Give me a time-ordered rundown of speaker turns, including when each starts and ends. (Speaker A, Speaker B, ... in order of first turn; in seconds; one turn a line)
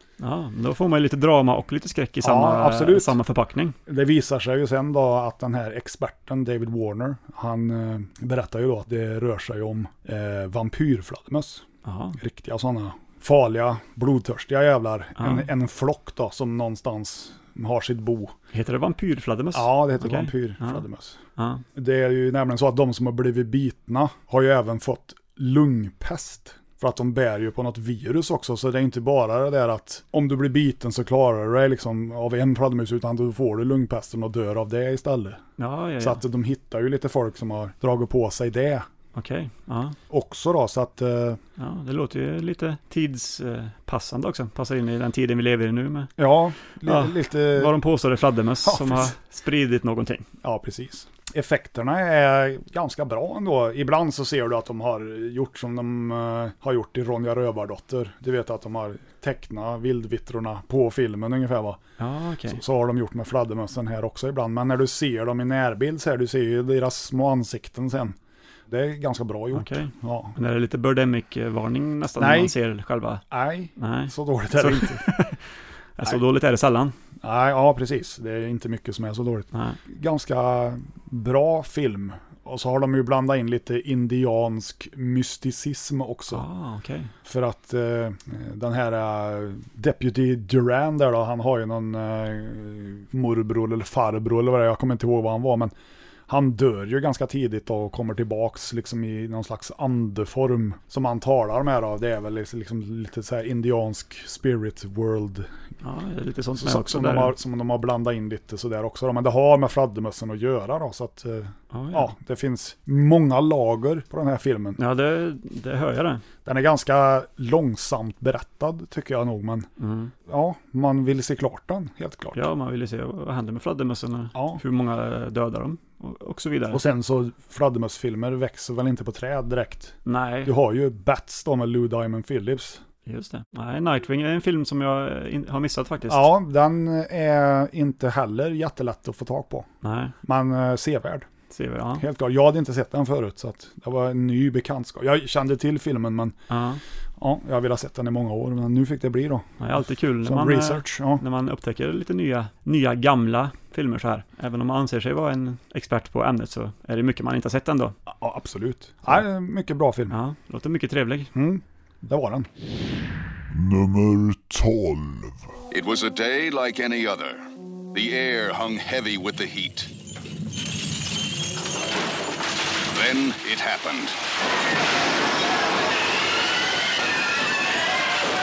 Speaker A: 0.2-3.8
Speaker B: 2.2-3.1
Speaker B: 3.9-11.7
Speaker A: 11.8-12.2
Speaker B: 12.2-18.3
Speaker A: 15.2-15.5
Speaker A: 18.5-20.8
Speaker B: 19.5-21.2
Speaker A: 21.4-21.6
Speaker B: 21.7-35.4
Speaker A: 35.6-36.2
Speaker B: 36.0-38.9
Speaker A: 39.1-40.0
Speaker B: 40.1-41.4
Speaker A: 41.6-46.1
Speaker B: 46.2-47.7
Speaker A: 46.8-50.3
Speaker B: 48.6-49.1
Speaker B: 50.4-61.8
Speaker A: 62.0-62.6
Speaker B: 62.5-68.2
Speaker B: 68.7-70.3
Speaker A: 69.5-73.2
Speaker B: 72.2-72.5
Speaker B: 73.3-75.0
Speaker A: 73.8-75.4
Speaker A: 76.0-76.9
Speaker B: 77.2-86.4
Speaker A: 79.5-79.8
Speaker A: 86.3-87.1
Speaker B: 87.2-95.7
Speaker B: 96.3-105.5
Speaker A: 105.8-107.3
Speaker B: 106.5-114.8
Speaker A: 111.7-112.1
Speaker A: 114.8-116.2
Speaker B: 116.4-119.7
Speaker A: 119.8-120.1
Speaker B: 120.2-122.4
Speaker A: 122.3-126.8
Speaker B: 124.3-124.6
Speaker B: 126.7-132.8
Speaker A: 130.1-130.5
Speaker A: 133.1-136.3
Speaker B: 136.1-139.7
Speaker A: 139.8-140.1
Speaker B: 140.2-141.3
Speaker A: 141.5-142.0
Speaker B: 142.0-146.4
Speaker A: 146.5-146.8
Speaker B: 147.2-151.2
Speaker A: 149.6-157.9
Speaker B: 158.1-160.2
Speaker A: 160.1-161.3
Speaker B: 161.3-162.5
Speaker C: 163.5-165.5
Speaker D: 165.7-169.9
Speaker D: 172.9-174.2